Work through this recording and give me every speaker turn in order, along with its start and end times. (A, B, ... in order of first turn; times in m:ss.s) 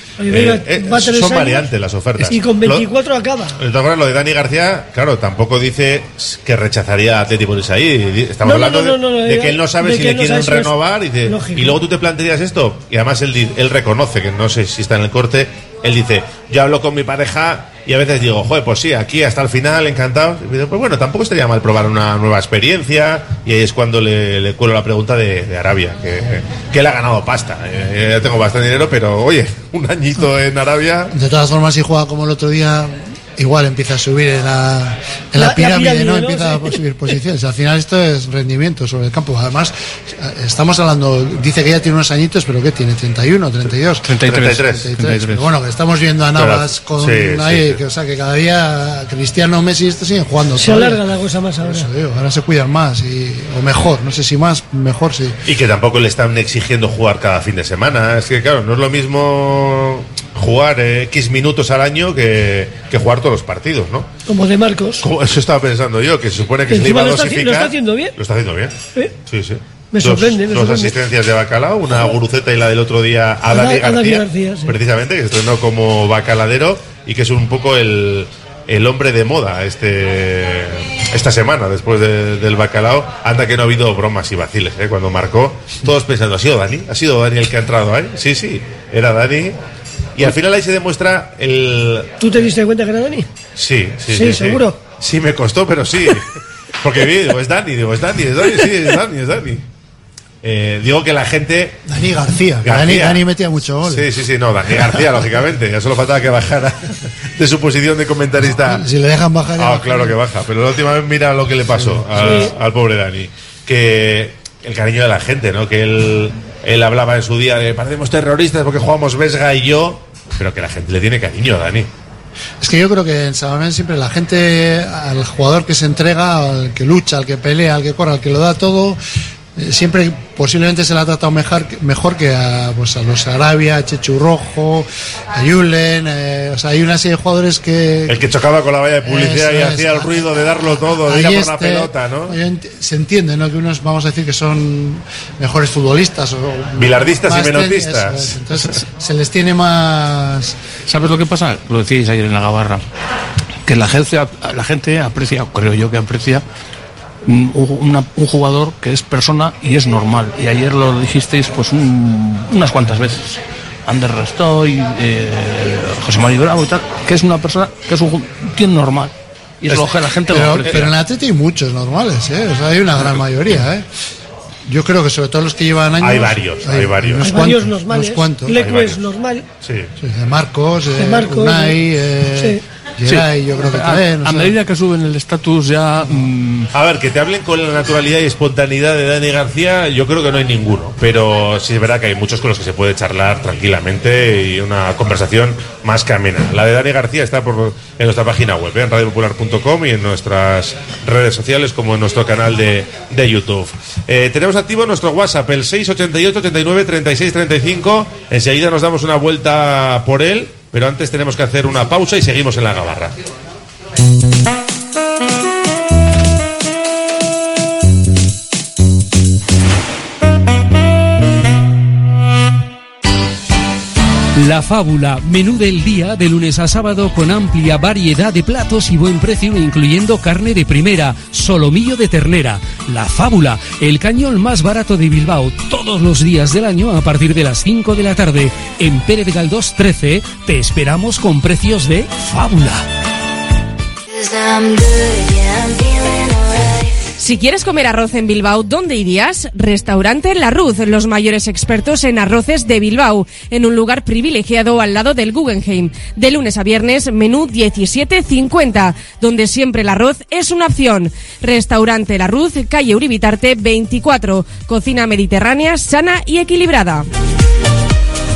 0:00.2-0:03.6 A
0:00.3-0:02.8 B
0:03.6-0:31.1 B
0:08.4-0:11.8 A
0:31.1-0:44.0 C
0:35.4-0:36.8 A
0:44.0-0:45.5 D
0:44.2-0:44.9 B
0:44.6-0:51.0 C
0:46.3-0:47.8 B
0:50.6-0:51.9 A
0:51.6-0:55.4 C
0:55.4-1:04.1 B
1:04.3-1:05.0 A
1:05.0-1:29.6 B
1:06.7-1:08.1 A
1:09.9-1:10.9 A
1:13.5-1:14.8 A
1:30.2-1:32.1 B
1:32.2-1:33.3 A
1:33.6-1:36.3 B
1:34.1-1:34.8 A
1:36.8-1:39.6 B
1:40.4-1:41.8 B
1:41.9-1:44.1 C
1:42.6-1:43.2 B
1:43.8-1:48.8 B
1:48.6-1:50.2 C
1:49.6-2:01.9 B
1:51.8-1:52.4 C
2:02.6-2:09.0 C
2:09.6-2:18.2 C
2:18.1-2:22.4 B
2:19.0-2:20.2 C
2:21.0-2:30.6 C
2:26.8-2:28.7 B
2:30.9-2:32.8 D
2:33.6-2:36.4 D
2:37.2-2:50.9 D
2:49.7-2:53.8 C
2:54.7-2:58.6 C
2:56.0-2:57.4 B
2:57.2-2:59.4 A
2:58.5-2:59.0 B
2:59.6-2:59.9 B
3:00.0-3:04.5 C
3:01.0-3:01.8 A
3:02.4-3:02.6 A
3:03.0-3:06.7 D
3:06.7-3:33.1 B
3:51.3-3:52.4 E
3:53.0-3:53.9 E
3:55.6-3:56.0 E
4:00.5-4:01.8 E
4:07.2-4:27.0 F